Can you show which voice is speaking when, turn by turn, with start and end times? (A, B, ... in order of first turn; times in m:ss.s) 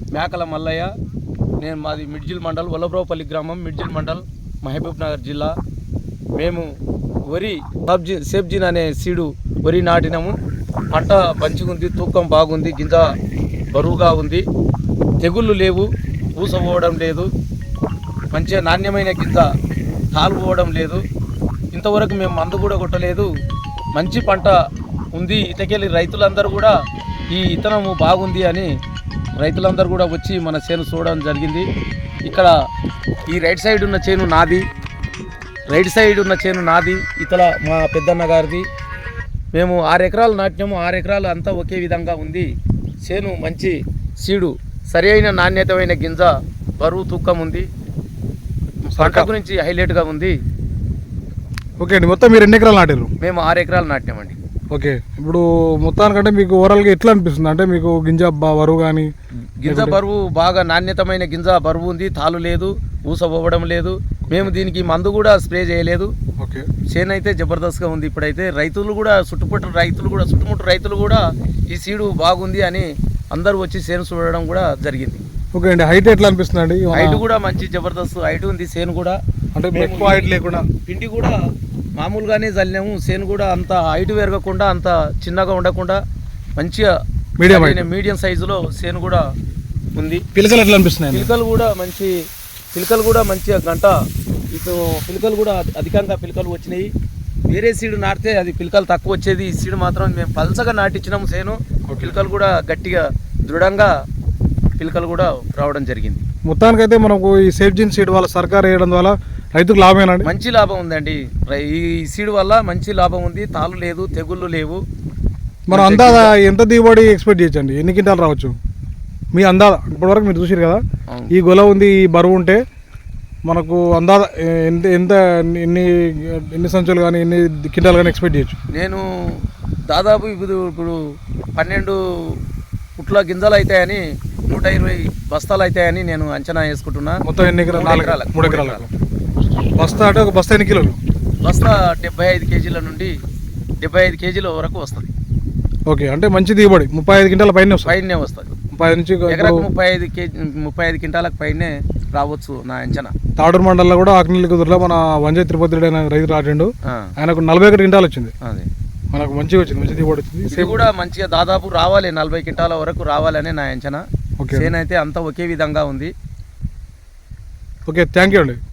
0:00.1-0:00.9 A
0:01.6-0:05.5 A
0:06.4-0:06.7 A
0:07.3-0:10.4 A
0:10.9-0:13.1 A
0:13.7-0:14.4 A
0:15.2-0:17.3 A
0:18.3-0:19.5 A
0:20.2-0:21.0 A
0:21.7-0:23.3 A
0:24.0-0:24.6 A
0:25.2-0:26.7 A
0:27.3-0:28.7 A
0:29.4-0:31.7 A
0:32.3-0:32.5 A
0:33.3-0:34.6 A
0:35.7-0:38.7 A
0:39.5-0:42.5 A
0:43.1-0:47.7 A
0:48.9-0:50.4 A
0:49.0-0:49.3 B
0:51.8-0:53.1 B
0:53.2-0:54.4 A
0:54.7-0:59.1 B
0:59.6-1:06.1 A
0:59.7-1:00.0 B
1:06.4-1:06.7 B
1:06.9-1:15.2 A
1:15.6-1:17.2 B
1:16.9-1:19.2 A
1:19.6-1:20.7 B
1:19.7-1:20.2 A
1:20.9-1:21.4 A
1:22.0-1:26.0 A
1:26.6-1:26.9 A
1:27.4-1:27.8 B
1:27.5-1:29.2 A
1:30.0-1:30.2 A
1:30.4-1:31.3 B
1:31.1-1:32.1 A
1:32.8-1:33.9 A
1:34.5-1:36.9 A
1:37.5-1:43.9 A
1:41.9-1:42.2 B
1:44.8-1:46.2 A
1:46.5-1:50.3 B
1:50.2-1:54.8 A
1:55.7-1:58.6 B
1:55.7-1:56.3 A
1:59.3-2:00.8 B
2:01.3-2:02.6 B
2:03.5-2:08.6 B
2:08.7-2:09.1 A
2:09.9-2:11.0 A
2:11.6-2:12.4 A
2:13.0-2:17.2 A
2:17.2-2:18.9 B
2:17.7-2:18.9 A
2:19.8-2:21.0 B
2:21.4-2:23.1 A
2:23.8-2:25.1 A
2:25.9-2:27.9 B
2:27.8-2:28.6 A
2:28.8-2:29.7 B
2:29.3-2:33.1 A
2:33.4-2:38.3 B
2:38.4-2:38.7 A
2:39.1-2:40.8 B
2:40.5-2:46.1 A
2:44.4-2:44.7 B
2:47.9-2:48.6 B